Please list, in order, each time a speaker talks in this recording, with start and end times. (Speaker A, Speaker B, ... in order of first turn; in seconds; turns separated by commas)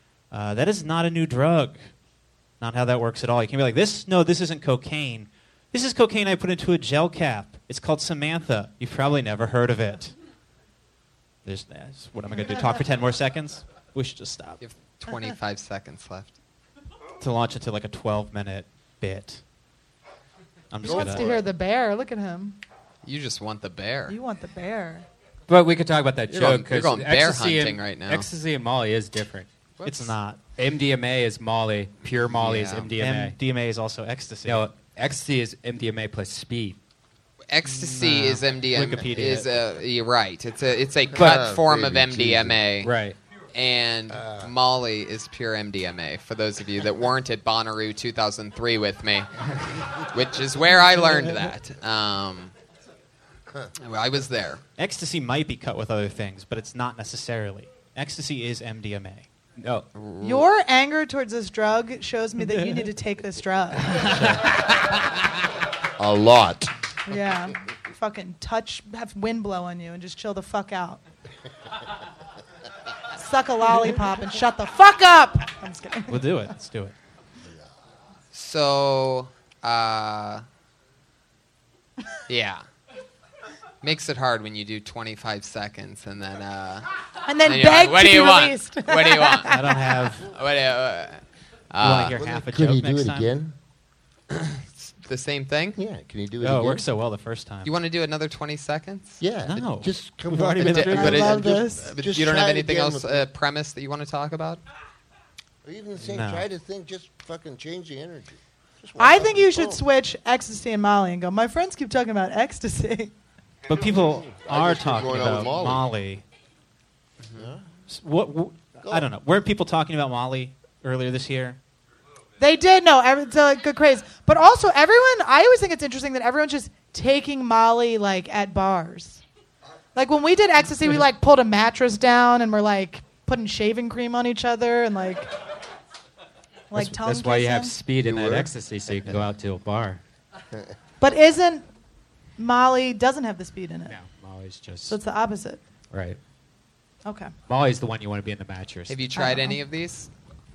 Speaker A: 0.3-1.8, Speaker A: 2.6-10.1, Speaker A: 11.4-14.6, Speaker B: 14.6-16.3, Speaker A: 17.2-19.4, Speaker A: 20.7-21.4, Speaker C: 20.8-21.4, Speaker D: 20.8-22.6, Speaker B: 23.1-24.2, Speaker D: 24.1-25.1, Speaker E: 25.5-29.5, Speaker B: 26.3-28.3, Speaker B: 29.8-30.1, Speaker A: 29.8-30.4, Speaker E: 30.5-33.4, Speaker B: 32.2-32.9, Speaker A: 33.0-34.7, Speaker E: 34.4-36.8, Speaker B: 37.5-42.9, Speaker A: 37.6-39.5, Speaker C: 41.1-42.6, Speaker E: 42.8-43.2, Speaker B: 43.5-52.5, Speaker C: 44.1-44.5, Speaker B: 53.8-54.6, Speaker A: 54.8-59.3, Speaker E: 59.6-59.9, Speaker B: 59.9-60.5, Speaker D: 60.2-64.2, Speaker C: 66.0-66.7, Speaker D: 67.1-71.0, Speaker D: 73.2-76.2, Speaker A: 76.1-76.9, Speaker B: 78.3-80.4, Speaker B: 82.3-82.6, Speaker B: 83.8-86.9, Speaker D: 87.3-89.8, Speaker B: 87.4-89.5, Speaker A: 89.5-90.3, Speaker B: 90.2-92.2, Speaker A: 91.8-93.3, Speaker C: 92.0-93.5, Speaker B: 94.3-95.8, Speaker C: 95.8-96.8, Speaker A: 96.4-97.7, Speaker B: 97.6-99.2, Speaker C: 99.2-103.3, Speaker A: 99.4-101.3, Speaker B: 100.6-104.6, Speaker D: 100.9-101.9, Speaker C: 105.6-109.8, Speaker A: 106.0-106.5, Speaker D: 109.0-113.1, Speaker A: 113.7-116.2, Speaker C: 113.7-115.9, Speaker C: 117.4-117.6, Speaker A: 117.9-121.6, Speaker D: 122.4-129.2, Speaker D: 129.9-135.3, Speaker D: 136.7-137.8, Speaker E: 136.7-140.0, Speaker C: 138.0-138.5, Speaker D: 141.0-141.7, Speaker D: 142.4-143.9, Speaker E: 143.9-145.0, Speaker D: 144.9-145.6, Speaker E: 145.9-146.2, Speaker D: 147.1-147.3, Speaker E: 147.5-149.0, Speaker B: 148.9-150.1, Speaker D: 149.1-149.6